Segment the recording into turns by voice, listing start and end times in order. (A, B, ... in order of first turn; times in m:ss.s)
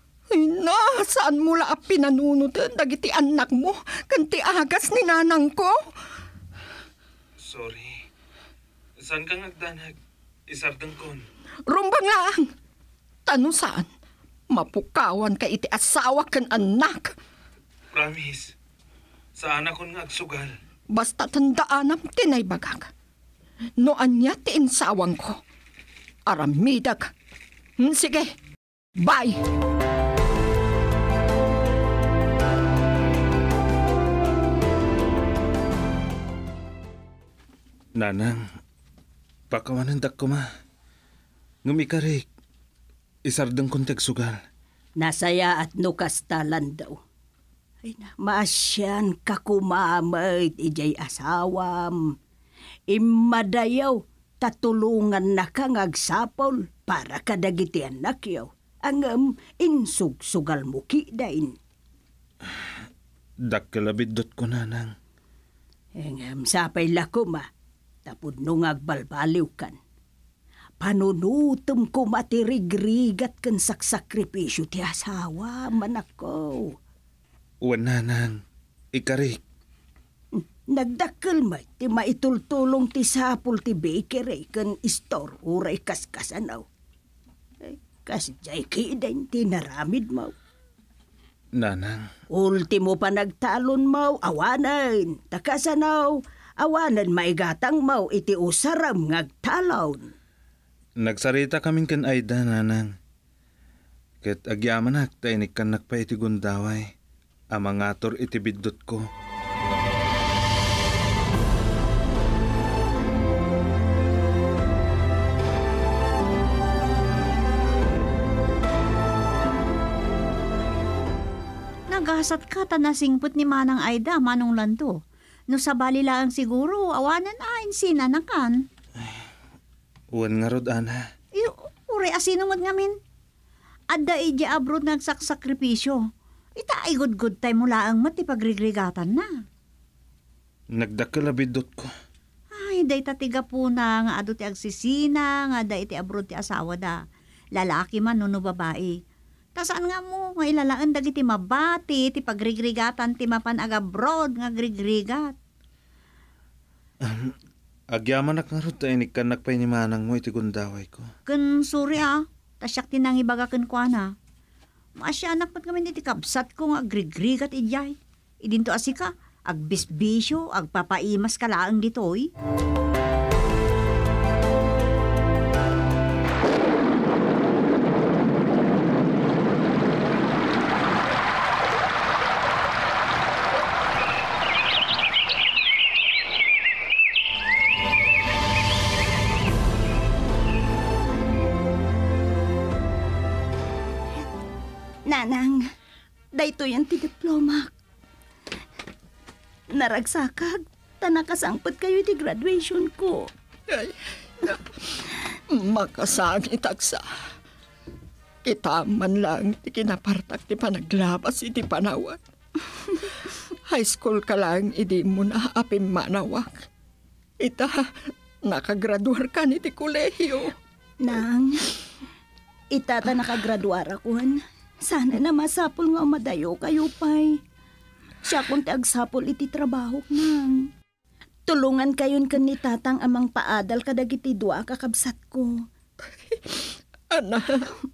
0:00.3-0:05.8 A
0:07.4-0:08.0 B
0:09.0-0:10.0 B
0:10.5-0:11.2 B
0:11.7-0:12.5 A
0:13.3-0:13.9 A
0:14.5-0:17.2 A
0:17.9-0:18.5 B
0:19.4-0:20.6 B
0:20.9-0:22.9 A
0:23.8-0:25.4 A
0:26.3-0:27.1 A
0:27.8-0:28.4 A
0:29.0-0:29.4 A
0:38.0-0:38.5 B
0:39.5-0:40.4 B
0:41.6-0:42.3 B
0:43.3-0:44.4 B
0:45.0-0:47.0 C
0:47.8-0:52.2 C
0:52.9-1:01.6 C
1:03.4-1:04.9 B
1:06.0-1:07.5 C
1:08.0-1:09.8 C
1:10.8-1:16.8 C
1:17.6-1:18.4 B
1:18.9-1:19.4 B
1:20.3-1:26.7 C
1:27.6-1:30.3 C
1:31.6-1:32.1 B
1:32.3-1:40.1 C
1:41.0-1:43.0 B
1:44.2-1:46.9 B
1:47.5-1:49.1 B
2:01.9-2:05.0 D
2:05.5-2:08.6 D
2:10.1-2:11.1 B
2:11.4-2:13.0 D
2:13.9-2:16.0 D
2:16.6-2:19.3 D
2:20.7-2:21.9 B
2:22.5-2:27.0 D
2:27.6-2:29.0 D
2:29.6-2:35.4 D
2:37.0-2:37.4 B
2:37.9-2:41.1 B
2:41.3-2:44.1 D
2:45.0-2:52.3 D
3:15.1-3:15.6 C
3:16.3-3:17.7 C
3:19.7-3:23.3 C
3:23.7-3:27.1 A
3:28.4-3:32.2 A
3:33.7-3:36.7 A
3:37.4-3:40.5 A
3:41.0-3:41.7 C
3:42.7-3:47.4 C
3:48.2-3:50.7 C
3:51.5-3:55.6 C
3:56.3-3:56.6 A
3:57.1-3:57.7 A